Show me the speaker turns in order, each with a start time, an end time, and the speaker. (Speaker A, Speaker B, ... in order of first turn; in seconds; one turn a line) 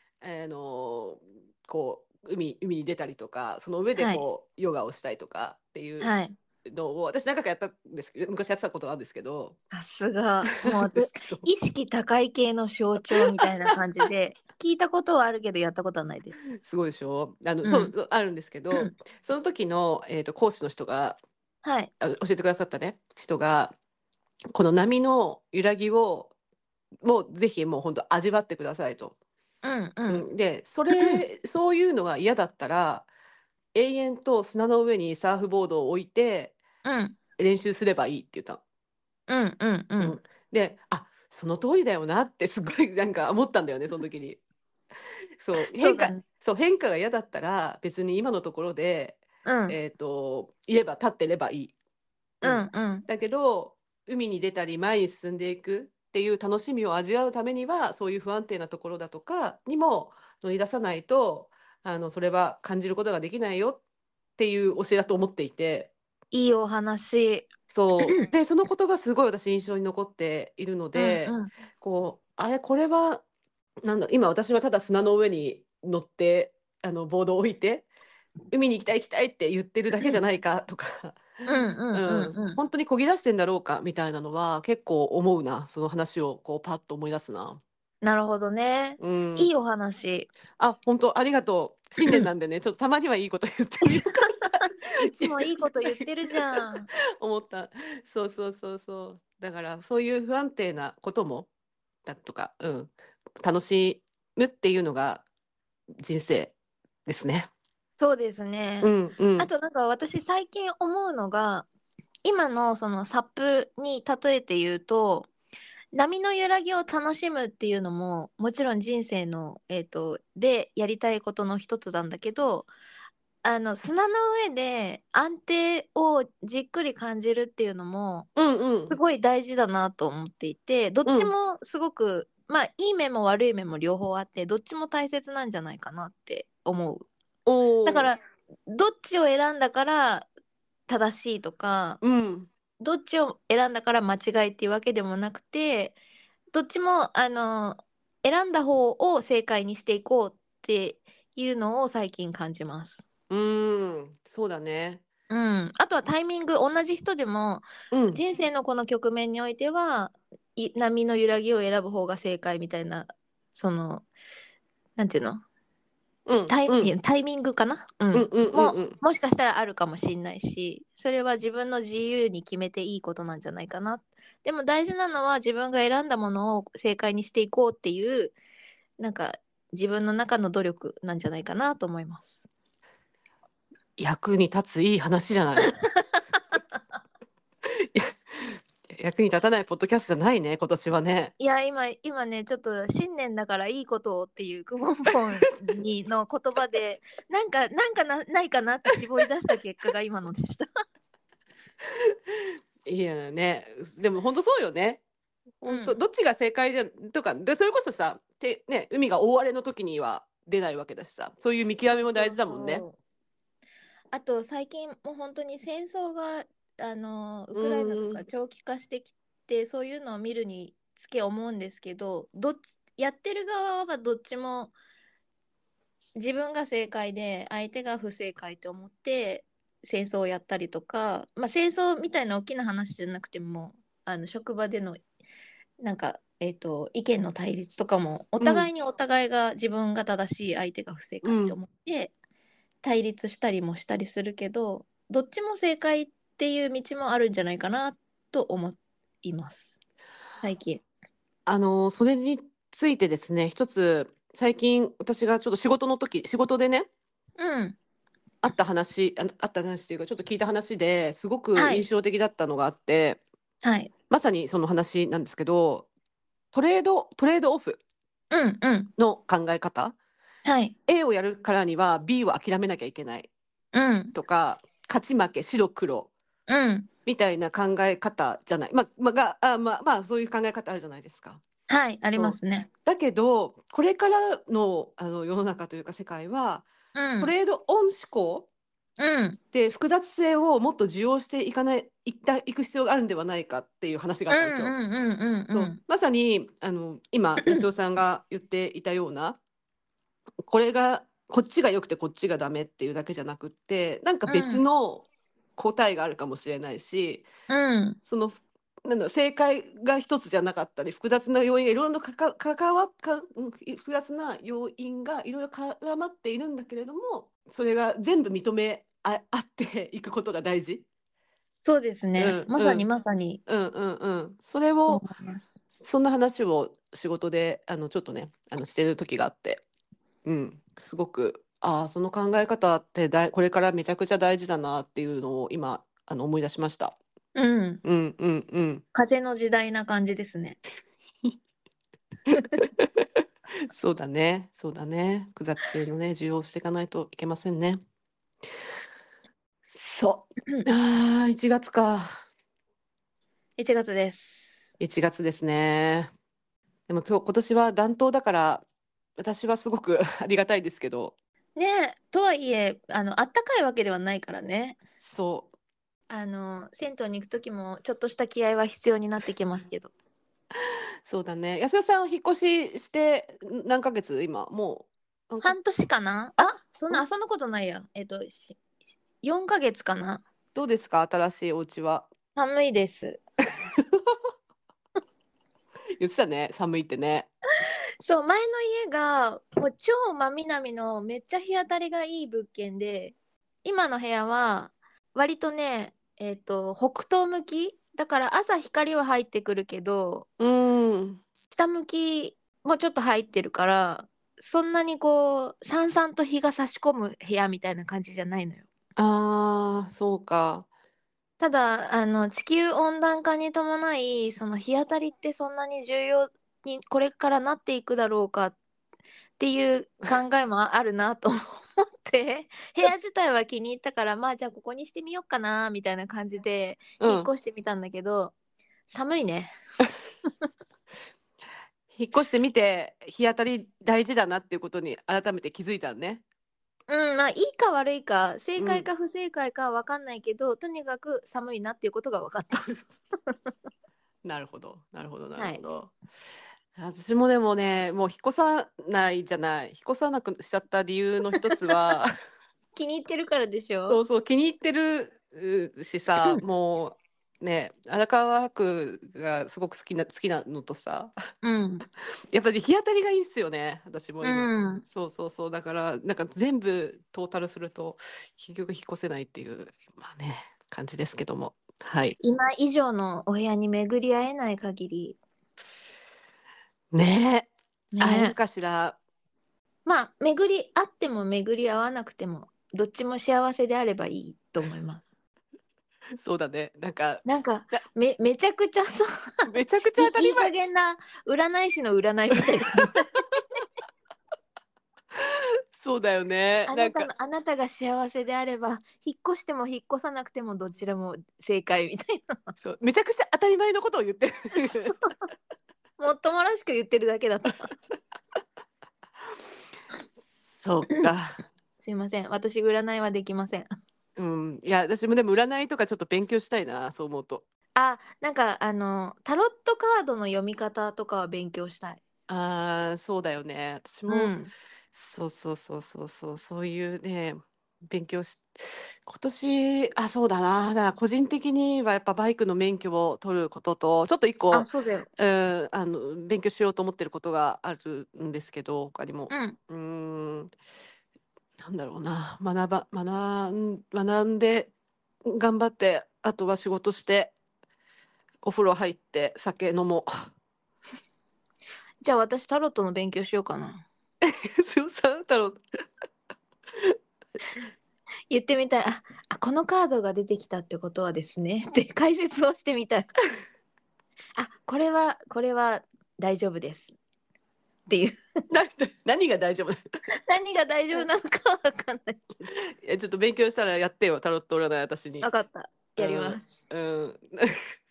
Speaker A: 0.2-6.1
Speaker B: 4.0-4.2
Speaker B: 6.0-6.3
Speaker A: 6.7-9.6
Speaker B: 9.7-16.4
Speaker A: 10.5-11.5
Speaker A: 13.2-13.4
Speaker A: 16.6-21.2
Speaker B: 17.6-17.9
Speaker B: 21.6-21.9
Speaker A: 22.0-23.8
Speaker A: 24.5-26.3
Speaker A: 27.0-29.1
Speaker B: 29.6-30.3
Speaker A: 30.1-33.1
Speaker B: 30.9-31.2
Speaker A: 33.7-36.6
Speaker B: 36.8-37.2
Speaker A: 37.4-38.6
Speaker B: 39.3-40.2
Speaker A: 40.0-44.4
Speaker A: 45.4-51.7
Speaker B: 45.6-46.2
Speaker B: 49.5-49.8
Speaker B: 52.4-53.1
Speaker A: 52.4-63.8
Speaker A: 64.4-65.9
Speaker B: 66.3-68.3
Speaker A: 67.7-73.2
Speaker B: 71.0-71.5
Speaker A: 73.8-77.9
Speaker A: 78.5-81.2
Speaker B: 81.5-82.6
Speaker A: 81.9-87.6
Speaker B: 88.0-90.3
Speaker A: 89.0-89.5
Speaker A: 90.6-95.3
Speaker B: 92.0-92.3
Speaker B: 93.8-96.9
Speaker A: 97.2-101.5
Speaker A: 102.0-105.2
Speaker A: 106.0-106.5
Speaker A: 107.1-107.5
Speaker B: 108.0-111.7
Speaker A: 108.8-109.5
Speaker B: 112.2-115.3
Speaker B: 115.9-122.7
Speaker B: 123.4-128.3
Speaker A: 128.4-129.0
Speaker B: 128.9-137.1
Speaker A: 131.1-131.3
Speaker A: 137.5-138.1
Speaker B: 137.9-140.3
Speaker B: 140.9-142.0
Speaker A: 142.0-142.5
Speaker B: 142.8-146.0
Speaker B: 146.5-153.0
Speaker A: 153.3-155.0
Speaker B: 155.3-164.1
Speaker A: 157.9-158.2
Speaker B: 165.0-165.4
Speaker A: 166.3-166.9
Speaker B: 166.5-178.3
Speaker A: 168.1-169.0
Speaker B: 179.0-182.5
Speaker A: 184.0-185.7
Speaker A: 187.8-191.3
Speaker B: 191.4-200.7
Speaker A: 201.9-205.0
Speaker A: 205.6-212.8
Speaker B: 205.7-206.0
Speaker B: 211.9-213.0
Speaker B: 214.1-224.7
Speaker A: 217.6-218.2
Speaker B: 226.2-235.0
Speaker B: 235.8-242.1
Speaker A: 238.4-238.7
Speaker A: 241.2-241.6
Speaker B: 242.8-249.7
Speaker B: 250.4-250.8
Speaker A: 251.5-256.9
Speaker B: 257.4-257.8
Speaker A: 258.4-263.2
Speaker B: 261.6-261.9
Speaker B: 263.6-263.9
Speaker A: 264.1-265.9
Speaker A: 266.5-267.8
Speaker B: 268.3-268.9
Speaker A: 269.0-269.9
Speaker B: 270.4-270.7
Speaker A: 270.9-273.3
Speaker B: 273.7-274.1
Speaker A: 274.1-276.1
Speaker B: 276.5-276.9
Speaker A: 277.1-281.4
Speaker B: 281.7-282.7
Speaker A: 282.2-286.7
Speaker B: 286.9-287.3
Speaker A: 287.2-288.5
Speaker B: 289.0-289.4
Speaker A: 289.5-294.8
Speaker B: 294.3-295.8
Speaker A: 295.5-299.4
Speaker A: 300.4-307.3
Speaker B: 304.3-304.6
Speaker B: 307.5-308.0
Speaker A: 308.1-320.9
Speaker B: 321.6-323.4
Speaker A: 322.2-322.9
Speaker A: 323.5-325.0
Speaker B: 324.9-325.6
Speaker A: 325.8-329.6
Speaker A: 330.2-337.0
Speaker B: 337.4-337.8
Speaker A: 337.8-338.8
Speaker B: 338.9-340.6
Speaker A: 342.8-343.0
Speaker A: 343.7-347.8
Speaker A: 349.7-352.1
Speaker B: 353.6-354.7
Speaker A: 354.8-356.1
Speaker A: 356.9-358.6
Speaker A: 359.2-361.1
Speaker B: 361.6-364.8
Speaker A: 365.0-365.5
Speaker B: 366.1-369.9
Speaker A: 371.1-375.6
Speaker B: 375.4-378.6
Speaker A: 376.4-377.0
Speaker B: 379.2-380.2
Speaker A: 380.6-382.1
Speaker B: 382.4-383.2
Speaker A: 386.0-387.3
Speaker B: 388.0-400.3
Speaker A: 400.4-401.2
Speaker B: 401.5-408.7
Speaker A: 409.0-410.7
Speaker B: 411.4-418.6
Speaker B: 419.4-428.3
Speaker A: 427.0-427.3
Speaker B: 428.9-429.5
Speaker A: 431.9-436.2
Speaker B: 436.9-442.7
Speaker A: 438.6-438.9
Speaker A: 444.2-445.9
Speaker B: 445.4-445.6
Speaker A: 446.8-452.1
Speaker B: 452.8-454.0
Speaker A: 453.9-461.1
Speaker B: 461.4-461.9
Speaker A: 462.3-472.2
Speaker B: 464.2-464.8
Speaker B: 472.2-475.2
Speaker A: 476.9-479.0
Speaker B: 477.9-478.4
Speaker B: 479.9-485.0
Speaker A: 486.2-487.8
Speaker B: 487.2-489.4
Speaker A: 489.5-490.5
Speaker B: 490.0-493.1
Speaker A: 492.7-493.0
Speaker A: 495.2-497.1
Speaker B: 496.7-502.5
Speaker A: 502.6-505.0
Speaker B: 506.0-507.7
Speaker A: 510.6-511.4
Speaker B: 511.8-513.7
Speaker A: 514.2-517.4
Speaker B: 517.8-522.0
Speaker A: 522.3-524.3
Speaker B: 524.1-524.5
Speaker A: 525.0-540.5
Speaker B: 534.5-535.1
Speaker B: 539.3-539.6
Speaker A: 541.6-544.7
Speaker A: 545.3-547.3
Speaker A: 548.4-550.2
Speaker B: 552.0-553.9
Speaker A: 554.2-555.6
Speaker B: 558.3-563.1
Speaker B: 564.4-566.9
Speaker B: 567.9-568.2
Speaker A: 568.5-569.8
Speaker B: 570.3-572.2
Speaker A: 572.6-575.3
Speaker B: 575.2-576.7
Speaker A: 576.0-577.6